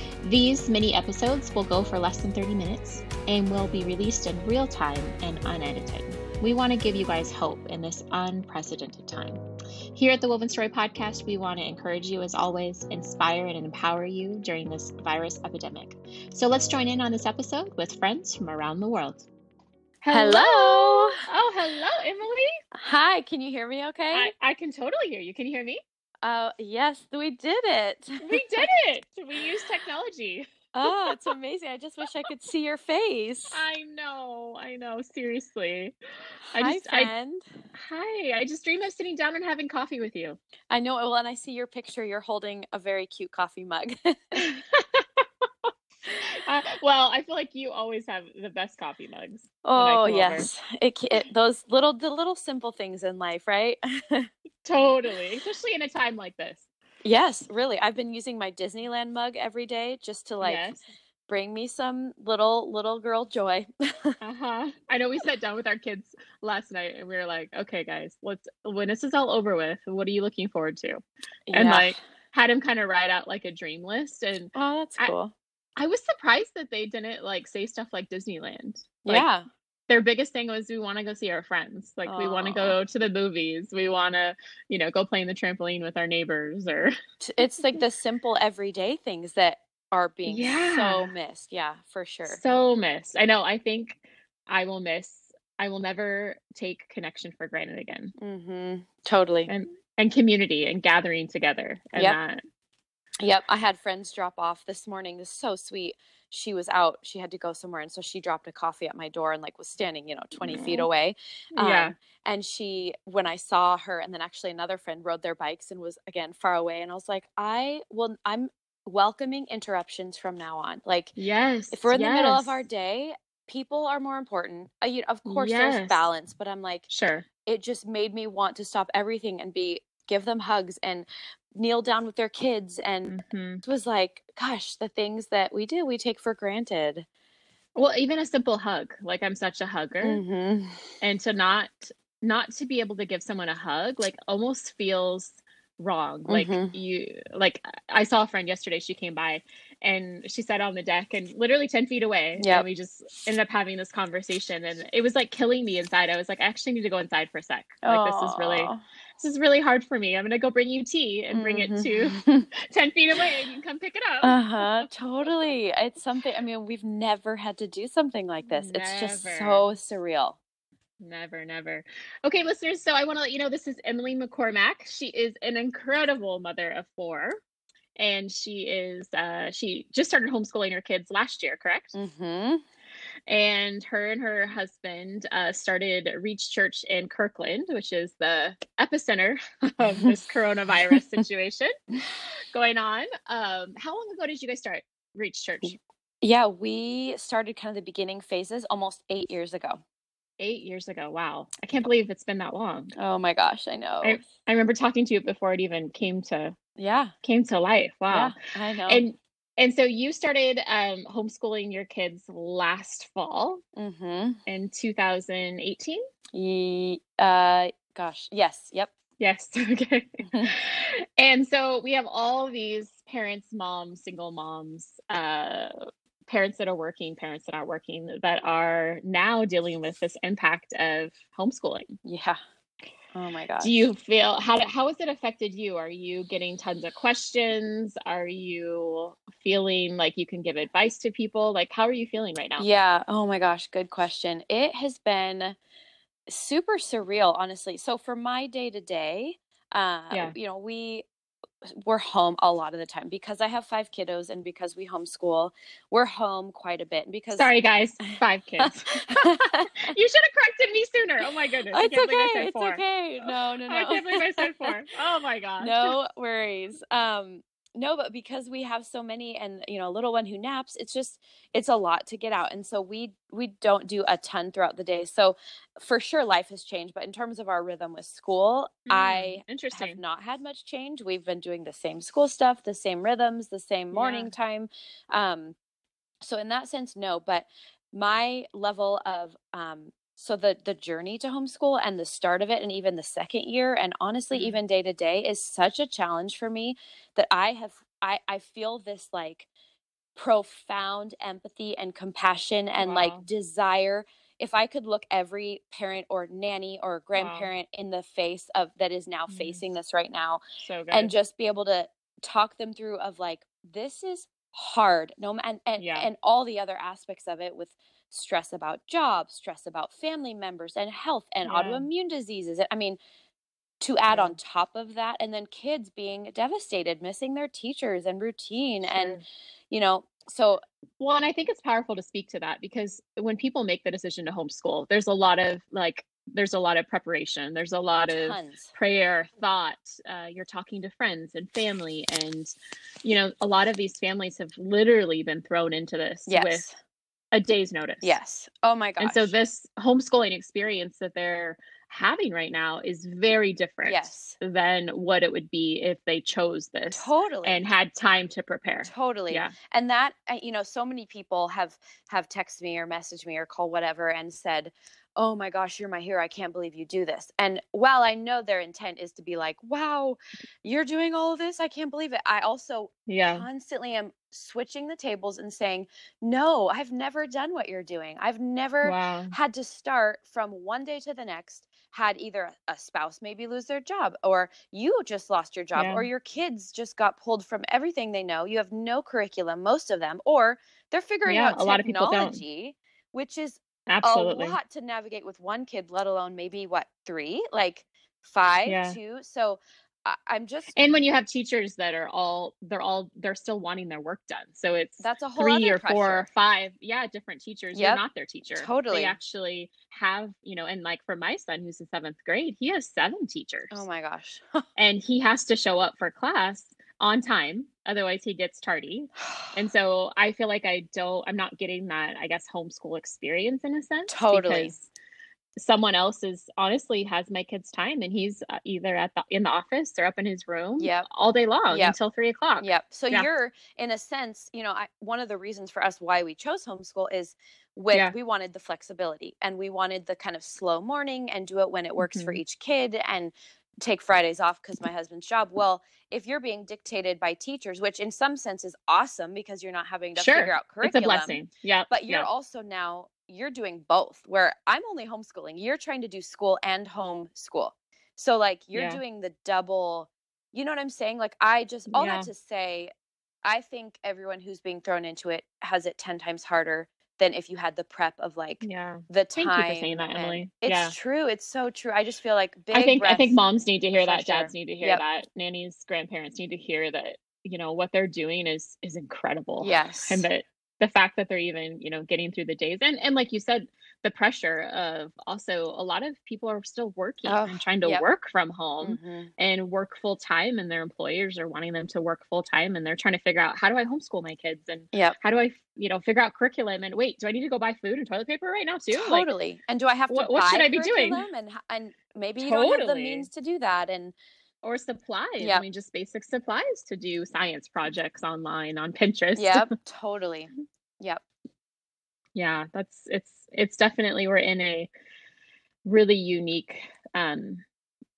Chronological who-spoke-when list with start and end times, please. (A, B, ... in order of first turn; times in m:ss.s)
0:00.2-0:09.4 A
0:10.0-0:19.3 A
0:20.0-0:22.5 A
0:20.1-0:21.2 B
0:22.8-0:24.3 B
0:24.1-0:25.8 A
0:26.2-0:28.4 B
0:28.2-0:31.2 A
0:30.7-0:33.6 B
0:33.5-0:35.9 A
0:36.5-0:37.1 A
0:36.5-0:37.6 B
0:37.7-0:40.4 A
0:40.7-0:44.6 B
0:44.4-0:45.7 A
0:46.2-0:50.5 A
0:49.6-0:54.3 B
0:54.6-0:56.7 A
0:57.0-1:00.8 B
1:00.4-1:00.8 A
1:01.3-1:04.2 B
1:04.2-1:15.1 A
1:11.5-1:12.0 B
1:14.6-1:15.3 B
1:15.8-1:19.3 A
1:19.0-1:19.5 B
1:19.9-1:26.9 A
1:22.1-1:22.8 B
1:27.2-1:32.4 B
1:30.3-1:31.1 A
1:32.3-1:38.1 A
1:38.2-1:39.5 B
1:39.5-1:42.4 A
1:43.2-2:01.2 B
1:50.4-1:50.9 A
1:51.6-1:51.9 A
2:01.2-2:02.6 A
2:01.7-2:06.9 B
2:05.2-2:06.1 A
2:06.9-2:07.3 A
2:07.5-2:17.1 B
2:13.1-2:13.6 A
2:17.8-2:20.2 A
2:20.0-2:20.9 B
2:21.0-2:44.9 A
2:26.3-2:26.7 B
2:32.4-2:32.7 B
2:37.8-2:38.8 B
2:41.3-2:42.5 B
2:44.2-2:50.4 B
2:48.5-2:49.6 A
2:51.0-2:57.4 A
2:58.0-3:02.0 A
3:02.0-3:02.6 B
3:03.3-3:15.8 A
3:16.2-3:19.8 B
3:20.4-3:22.9 A
3:23.0-3:24.3 B
3:24.0-3:26.6 A
3:26.8-3:27.1 B
3:27.2-3:28.4 A
3:28.1-3:29.0 B
3:28.9-3:33.6 A
3:33.8-3:34.4 B
3:34.5-3:36.0 A
3:36.3-3:38.9 B
3:39.2-3:45.7 A
3:46.3-3:51.9 A
3:52.0-3:52.4 B
3:53.1-3:53.9 B
3:53.6-4:02.7 A
4:02.6-4:05.6 B
4:06.3-4:11.1 B
4:11.6-4:17.5 B
4:17.3-4:26.0 A
4:18.6-4:19.9 B
4:21.7-4:24.7 B
4:25.6-4:45.6 B
4:38.9-4:40.0 A
4:43.9-4:44.3 A
4:46.2-4:59.5 B
4:54.3-4:54.6 A
5:00.2-5:23.0 B
5:02.8-5:03.2 A
5:07.2-5:07.5 A
5:09.3-5:09.6 A
5:10.6-5:11.1 A
5:15.8-5:16.1 A
5:21.4-5:21.9 A
5:23.8-5:30.6 B
5:24.1-5:24.4 A
5:28.8-5:29.2 A
5:31.0-5:42.5 A
5:38.2-5:38.7 B
5:43.0-5:46.7 A
5:46.3-5:46.8 B
5:47.3-5:48.2 A
5:48.0-5:49.4 B
5:49.0-5:59.5 A
5:53.8-5:54.4 B
5:56.9-5:57.6 B
5:58.8-6:40.7 B
6:13.1-6:13.5 A
6:18.8-6:19.4 A
6:25.8-6:26.1 A
6:31.3-6:32.4 A
6:33.9-6:34.6 A
6:38.7-6:39.0 A
6:40.7-6:53.8 A
6:45.0-6:46.3 B
6:47.7-6:48.0 B
6:48.6-6:49.2 B
6:53.7-6:54.6 B
6:54.8-7:04.9 A
7:04.1-7:04.7 B
7:05.6-7:13.3 A
7:11.7-7:12.0 B
7:12.6-7:31.4 B
7:22.0-7:22.4 A
7:30.2-7:32.3 A
7:31.9-7:42.9 B
7:38.7-7:39.0 A
7:41.9-7:42.3 A
7:43.4-7:53.4 B
7:48.6-7:51.0 A
7:52.7-8:19.3 A
7:54.0-7:55.0 B
7:59.6-8:00.2 B
8:07.2-8:08.0 B
8:08.8-8:09.3 B
8:18.9-8:24.2 B
8:20.1-8:21.3 A
8:22.4-8:23.3 A
8:24.6-8:29.7 A
8:25.4-8:25.6 B
8:29.4-8:31.2 B
8:32.4-8:34.9 A
8:35.8-8:37.6 A